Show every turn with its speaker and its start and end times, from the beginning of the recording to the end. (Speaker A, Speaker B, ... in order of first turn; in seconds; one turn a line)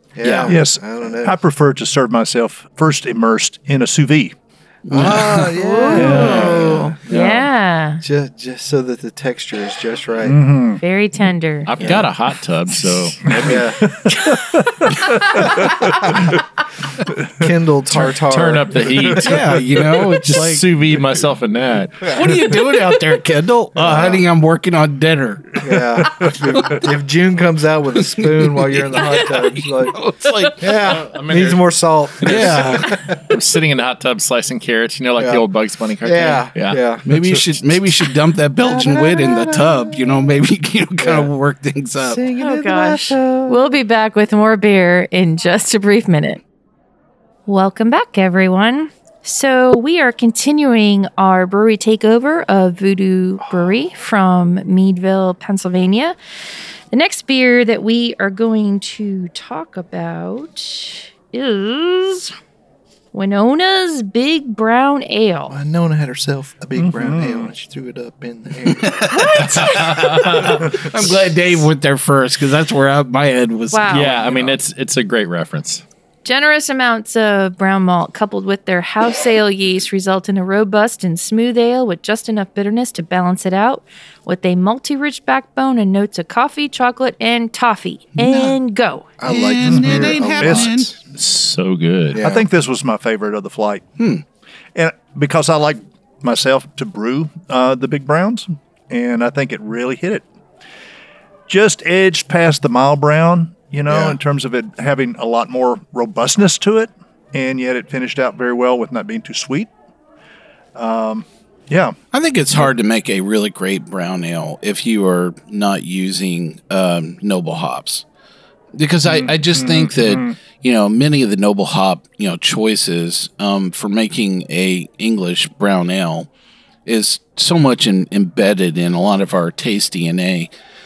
Speaker A: 0.2-1.4
Speaker B: 0.2-0.6
Speaker C: 0.5-4.3
Speaker B: 4.9-7.4
Speaker A: 4.9-7.4
Speaker D: 5.4-8.0
Speaker C: 6.0-6.5
Speaker A: 8.0-10.4
Speaker C: 10.2-10.8
Speaker D: 10.8-11.7
Speaker E: 11.7-13.8
Speaker A: 11.8-12.1
Speaker C: 13.3-16.4
Speaker A: 13.4-13.9
Speaker D: 14.1-14.6
Speaker D: 15.3-15.9
Speaker A: 17.4-19.2
Speaker E: 17.9-22.1
Speaker B: 19.2-20.6
Speaker C: 20.0-20.4
Speaker B: 22.1-25.6
Speaker A: 23.8-24.2
Speaker A: 25.6-30.0
Speaker B: 28.2-31.0
Speaker A: 30.6-33.2
Speaker E: 30.8-31.6
Speaker B: 32.2-33.0
Speaker E: 32.2-36.8
Speaker A: 35.2-35.4
Speaker A: 36.0-37.1
Speaker B: 37.1-42.2
Speaker A: 38.6-40.3
Speaker A: 41.0-41.3
Speaker A: 42.0-43.7
Speaker D: 42.4-46.4
Speaker D: 47.5-56.2
Speaker A: 53.4-53.8
Speaker D: 56.9-62.3
Speaker D: 63.1-65.6
Speaker A: 65.5-69.1
Speaker C: 66.8-67.5
Speaker B: 68.7-74.5
Speaker D: 69.1-69.6
Speaker E: 69.4-70.7
Speaker D: 73.7-74.1
Speaker E: 73.9-75.8
Speaker D: 76.2-89.1
Speaker B: 88.2-88.6
Speaker A: 89.2-91.0
Speaker B: 89.2-90.9
Speaker C: 89.7-90.7
Speaker E: 91.1-92.2
Speaker A: 92.1-92.5
Speaker C: 92.2-93.8
Speaker B: 94.0-94.2
Speaker C: 94.8-100.3
Speaker C: 101.5-109.7
Speaker A: 103.9-104.2
Speaker C: 110.8-112.0
Speaker B: 112.1-118.0
Speaker B: 118.8-126.3
Speaker C: 119.1-120.3
Speaker B: 126.9-130.5